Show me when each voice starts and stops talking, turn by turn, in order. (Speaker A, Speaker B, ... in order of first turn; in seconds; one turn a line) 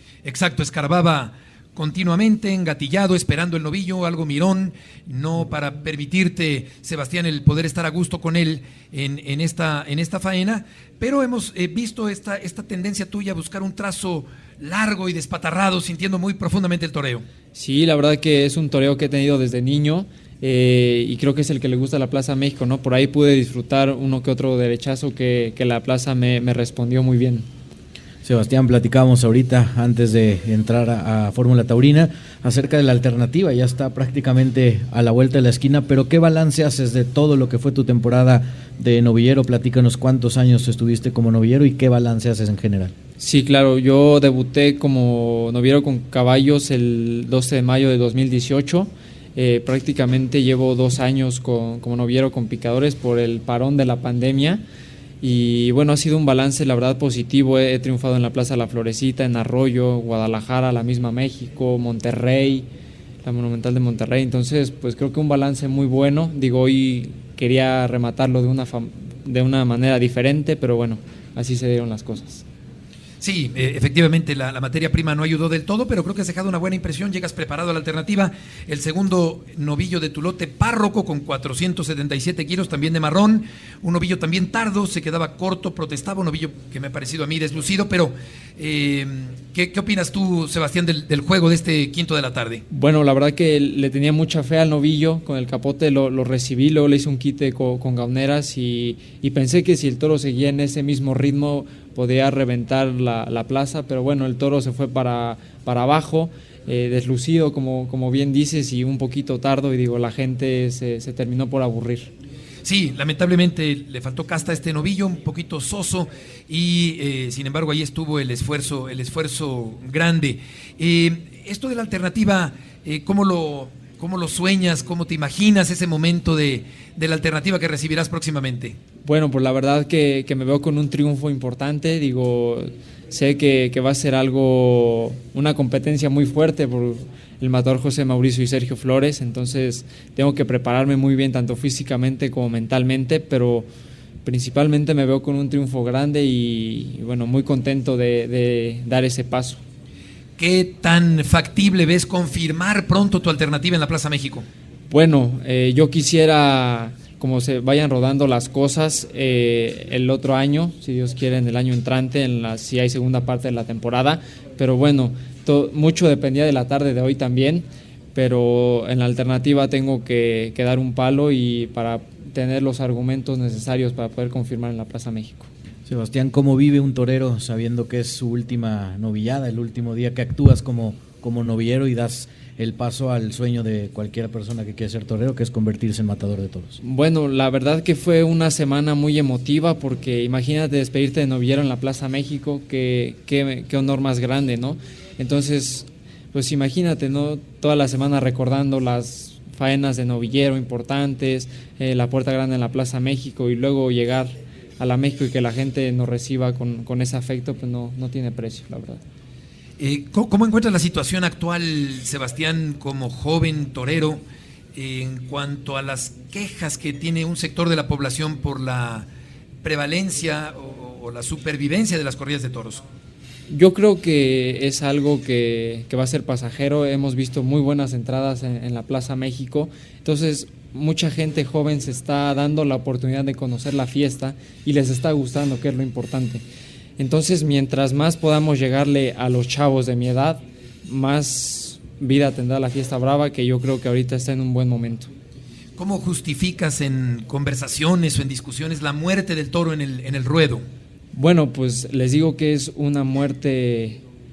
Speaker A: 0.2-17.2
Speaker B: 17.5-27.5
Speaker C: 28.2-42.9
Speaker B: 43.2-54.6
Speaker B: 55.2-62.6
Speaker B: 63.2-72.4
Speaker A: 73.2-92.6
Speaker B: 92.7-112.1
Speaker A: 112.6-128.8
Speaker B: 129.0-143.7
Speaker B: 144.2-149.6
Speaker A: 150.4-154.4
Speaker B: 154.9-175.5
Speaker C: 175.9-186.8
Speaker B: 186.8-209.0
Speaker A: 209.8-214.2
Speaker A: 214.7-219.1
Speaker A: 219.6-222.8
Speaker B: 223.5-236.4
Speaker B: 237.0-245.1
Speaker A: 245.8-250.6
Speaker B: 251.1-254.0